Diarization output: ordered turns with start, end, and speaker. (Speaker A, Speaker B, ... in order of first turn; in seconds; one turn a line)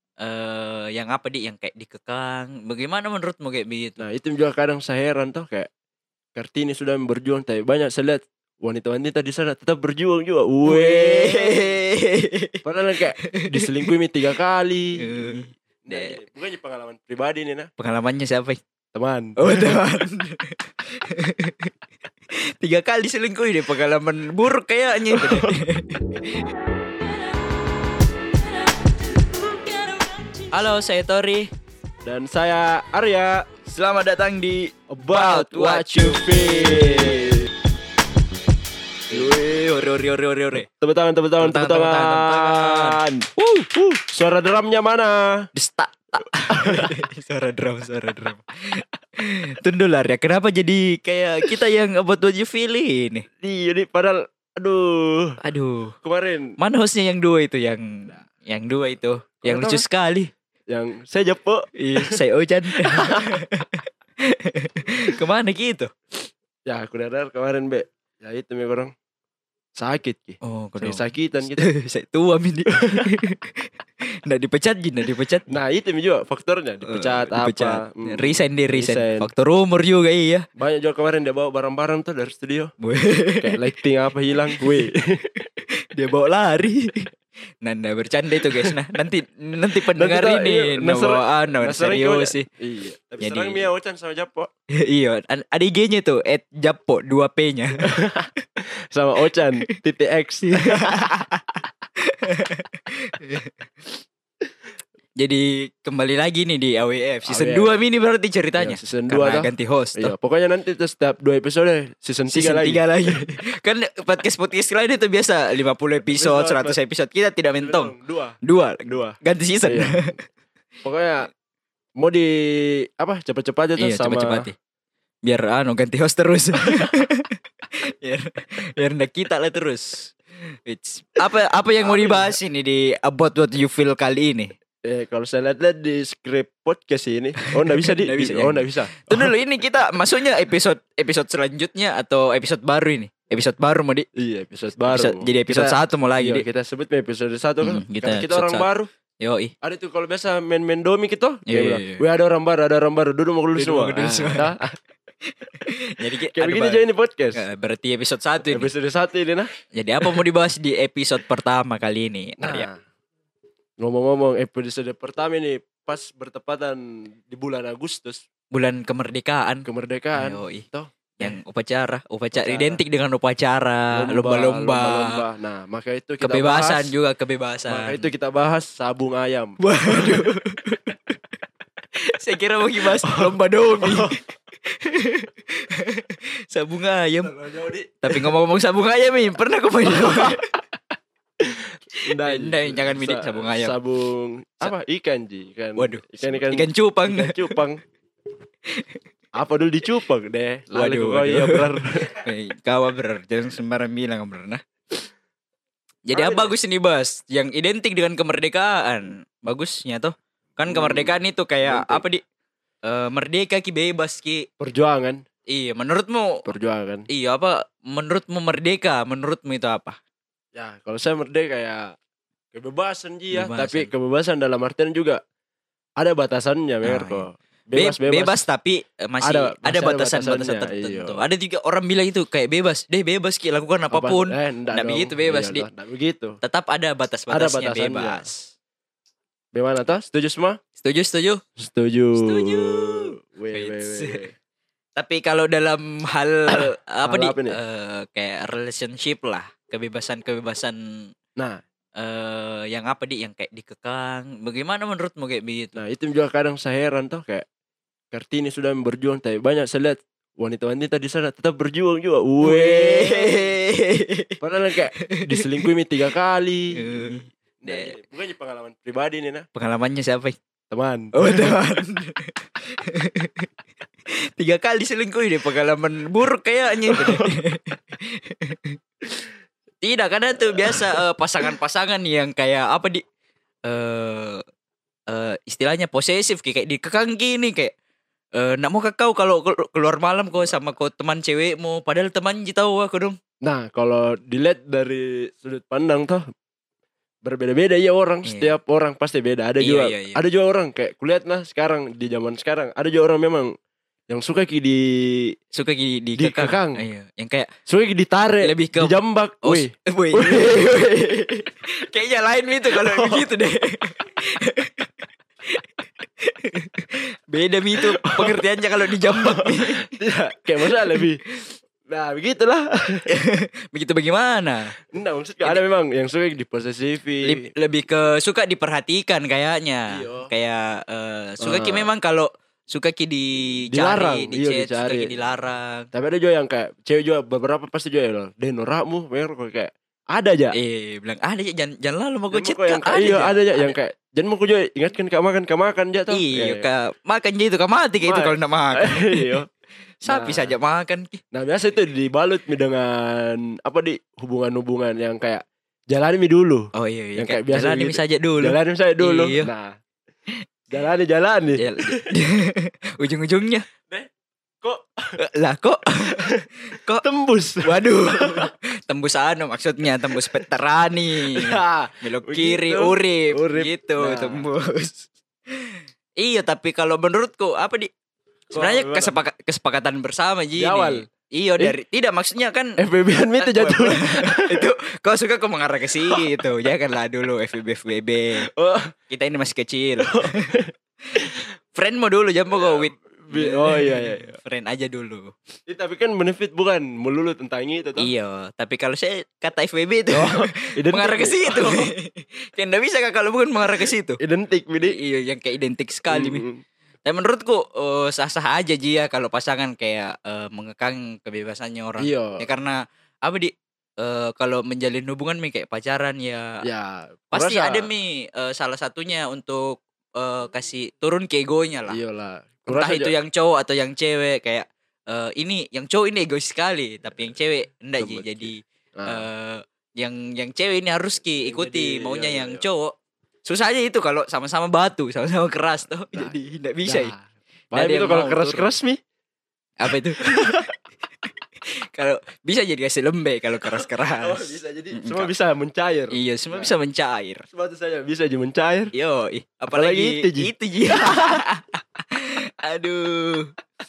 Speaker A: 0.2-4.0
Speaker B: 4.0-5.7
Speaker B: 6.4-11.8
Speaker A: 10.7-12.6
Speaker B: 12.6-17.7
Speaker A: 15.0-16.2
Speaker A: 17.8-18.6
Speaker B: 18.9-19.8
Speaker A: 19.4-21.7
Speaker A: 22.3-26.5
Speaker B: 25.1-25.6
Speaker B: 29.2-30.4
Speaker A: 30.5-31.5
Speaker B: 32.0-33.5
Speaker A: 33.6-37.4
Speaker B: 34.9-37.5
Speaker A: 39.1-40.7
Speaker B: 39.1-39.4
Speaker B: 40.8-43.3
Speaker A: 41.4-44.0
Speaker B: 44.0-45.5
Speaker A: 45.5-53.3
Speaker B: 46.5-46.9
Speaker B: 53.4-55.4
Speaker A: 55.4-55.9
Speaker B: 56.0-56.6
Speaker A: 56.6-60.3
Speaker B: 59.4-59.9
Speaker B: 60.7-62.2
Speaker A: 61.8-65.9
Speaker B: 62.8-63.4
Speaker B: 66.7-68.9
Speaker B: 69.8-71.7
Speaker A: 70.4-73.7
Speaker B: 72.7-73.2
Speaker A: 74.3-75.5
Speaker B: 75.5-79.3
Speaker A: 76.8-80.5
Speaker B: 80.6-82.7
Speaker A: 82.8-83.5
Speaker B: 83.4-85.3
Speaker A: 85.9-87.1
Speaker A: 87.6-92.5
Speaker B: 88.4-88.7
Speaker B: 89.8-94.5
Speaker A: 93.2-93.7
Speaker A: 94.8-97.9
Speaker B: 97.8-98.3
Speaker B: 98.9-101.0
Speaker A: 100.7-103.7
Speaker A: 105.2-110.1
Speaker B: 107.3-107.7
Speaker B: 108.6-113.3
Speaker A: 112.3-120.2
Speaker B: 116.2-116.8
Speaker B: 117.6-120.0
Speaker B: 120.8-121.3
Speaker B: 122.0-124.5
Speaker A: 123.8-124.5
Speaker A: 125.2-127.4
Speaker B: 126.7-127.0
Speaker A: 128.0-134.5
Speaker B: 131.8-132.4
Speaker B: 134.8-139.3
Speaker A: 137.8-144.1
Speaker B: 144.2-148.9
Speaker A: 144.9-146.4
Speaker A: 147.6-148.7
Speaker A: 149.2-149.5
Speaker B: 149.6-154.8
Speaker A: 151.5-152.0
Speaker A: 153.6-154.5
Speaker A: 155.5-158.7
Speaker B: 156.3-157.4
Speaker B: 158.5-159.5
Speaker A: 159.8-162.7
Speaker B: 162.4-162.8
Speaker B: 163.8-168.2
Speaker A: 168.5-170.7
Speaker B: 169.7-171.4
Speaker A: 171.2-175.2
Speaker B: 172.3-172.8
Speaker B: 173.9-176.9
Speaker A: 176.2-178.1
Speaker B: 177.7-180.3
Speaker A: 179.6-181.1
Speaker A: 182.0-187.3
Speaker B: 182.8-184.2
Speaker B: 187.2-188.3
Speaker A: 188.0-190.4
Speaker B: 189.9-190.4
Speaker B: 191.4-197.8
Speaker A: 192.2-193.8
Speaker A: 195.8-197.6
Speaker B: 199.4-202.1
Speaker A: 200.7-204.6
Speaker A: 206.1-212.2
Speaker B: 206.1-206.5
Speaker B: 210.7-212.0
Speaker A: 212.8-214.5
Speaker B: 214.6-215.2
Speaker A: 215.5-216.5
Speaker B: 216.4-217.1
Speaker A: 217.1-220.0
Speaker B: 220.6-222.0
Speaker B: 222.5-225.2
Speaker A: 223.3-223.9
Speaker B: 226.0-228.4
Speaker A: 226.8-235.7
Speaker B: 229.2-231.2
Speaker B: 233.9-236.4
Speaker A: 236.4-238.5
Speaker B: 237.3-238.3
Speaker B: 239.5-240.6
Speaker A: 240.8-241.4
Speaker B: 241.6-244.3
Speaker A: 242.2-244.3
Speaker A: 245.0-250.8
Speaker B: 246.5-247.6
Speaker A: 252.0-255.8
Speaker B: 255.8-257.4
Speaker B: 258.1-263.6
Speaker A: 262.4-264.4
Speaker B: 264.4-269.5
Speaker A: 265.0-265.4
Speaker A: 266.8-267.9
Speaker A: 269.6-270.4
Speaker B: 270.7-271.6
Speaker A: 271.1-273.5
Speaker A: 274.4-278.8
Speaker B: 276.9-277.4
Speaker A: 279.8-283.0
Speaker B: 280.6-281.5
Speaker A: 283.7-284.4
Speaker A: 285.1-287.7
Speaker A: 288.4-293.2
Speaker B: 293.4-296.2
Speaker B: 297.2-303.5
Speaker A: 298.2-298.6
Speaker A: 299.6-300.2
Speaker B: 304.1-305.4
Speaker A: 305.5-307.5
Speaker B: 306.2-306.8
Speaker B: 307.7-311.4
Speaker A: 308.4-314.9
Speaker B: 312.7-313.3
Speaker A: 315.5-319.9
Speaker B: 317.8-321.2
Speaker A: 320.7-321.1
Speaker B: 321.9-323.1
Speaker A: 323.1-324.8
Speaker B: 324.8-327.5
Speaker A: 327.2-335.9
Speaker B: 329.9-330.3
Speaker B: 331.4-331.9
Speaker B: 333.7-335.1
Speaker B: 335.9-340.6
Speaker A: 340.5-343.8
Speaker B: 342.3-346.7
Speaker A: 346.1-349.4
Speaker B: 348.1-349.5
Speaker A: 350.0-351.2
Speaker B: 350.0-350.6
Speaker B: 351.3-359.7
Speaker A: 356.7-359.5
Speaker B: 360.7-362.1
Speaker A: 361.6-363.6
Speaker B: 364.6-365.2
Speaker A: 365.2-367.0
Speaker B: 366.0-366.4
Speaker B: 367.0-368.5
Speaker A: 367.6-377.9
Speaker B: 370.1-370.4
Speaker B: 371.3-374.5
Speaker B: 378.5-379.2
Speaker A: 378.5-382.8
Speaker B: 380.6-381.1
Speaker B: 382.8-384.7
Speaker A: 383.4-388.5
Speaker B: 386.1-386.5
Speaker B: 388.4-388.9
Speaker A: 389.1-390.5
Speaker B: 390.0-391.2
Speaker A: 391.2-395.3
Speaker B: 392.5-394.3
Speaker B: 395.7-398.1
Speaker A: 398.0-404.2
Speaker B: 400.1-401.9
Speaker B: 403.8-405.0
Speaker A: 404.9-406.4
Speaker B: 406.1-406.6
Speaker A: 407.1-416.5
Speaker B: 412.0-412.4
Speaker B: 416.6-417.9
Speaker A: 417.3-422.0
Speaker B: 421.9-423.1
Speaker A: 422.7-432.9
Speaker B: 428.0-429.3
Speaker B: 431.4-432.7
Speaker A: 433.5-437.1
Speaker B: 436.1-439.0
Speaker A: 437.7-438.7
Speaker A: 439.8-440.7
Speaker B: 440.2-440.7
Speaker A: 441.9-445.3
Speaker B: 443.7-446.8
Speaker A: 446.1-447.4
Speaker B: 447.5-448.9
Speaker A: 448.9-453.5
Speaker B: 449.7-451.4